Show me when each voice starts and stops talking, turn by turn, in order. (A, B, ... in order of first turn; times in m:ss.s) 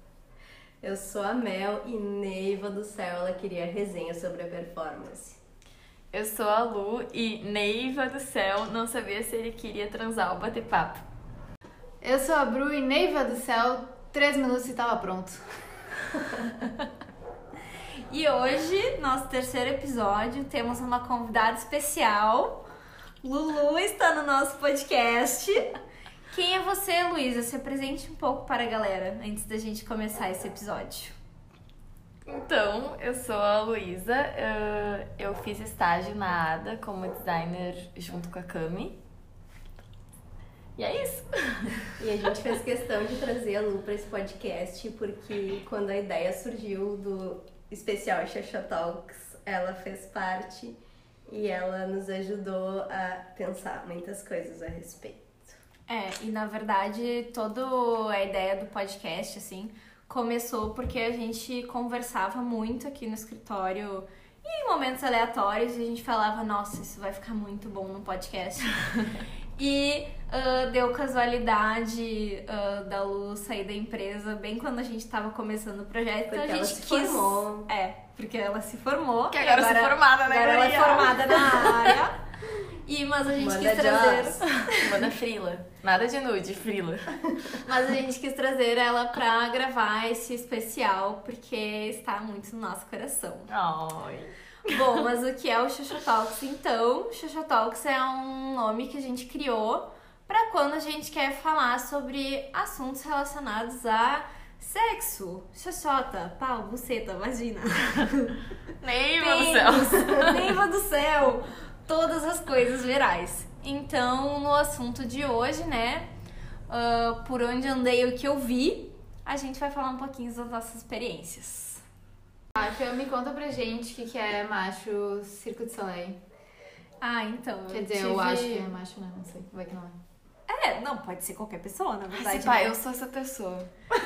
0:00.8-0:05.4 A
0:06.1-0:11.0 B
0:12.0-0:15.4 C
0:18.1-0:22.6 D
0:23.2-0:25.7 D
0:26.3-0:31.1 D
0:32.2-0:39.0 B
0:40.8-0:41.8 B
0:42.0-0:50.8 A
0:51.3-0:55.5 A
0:55.9-1:08.8 D
1:09.6-1:22.2 D
1:16.3-1:17.7 A
1:19.3-1:22.0 B
1:22.8-1:24.6 D
1:23.4-1:24.5 A
1:24.6-1:27.6 B
1:27.6-1:33.5 D
1:33.5-1:34.3 B
1:34.6-1:48.4 D
1:48.8-1:50.5 B
1:49.1-1:56.1 D
1:56.7-2:01.8 D
2:02.5-2:06.2 C
2:07.0-2:08.7 D
2:07.7-2:09.9 C
2:10.5-2:12.8 D
2:12.1-2:13.7 B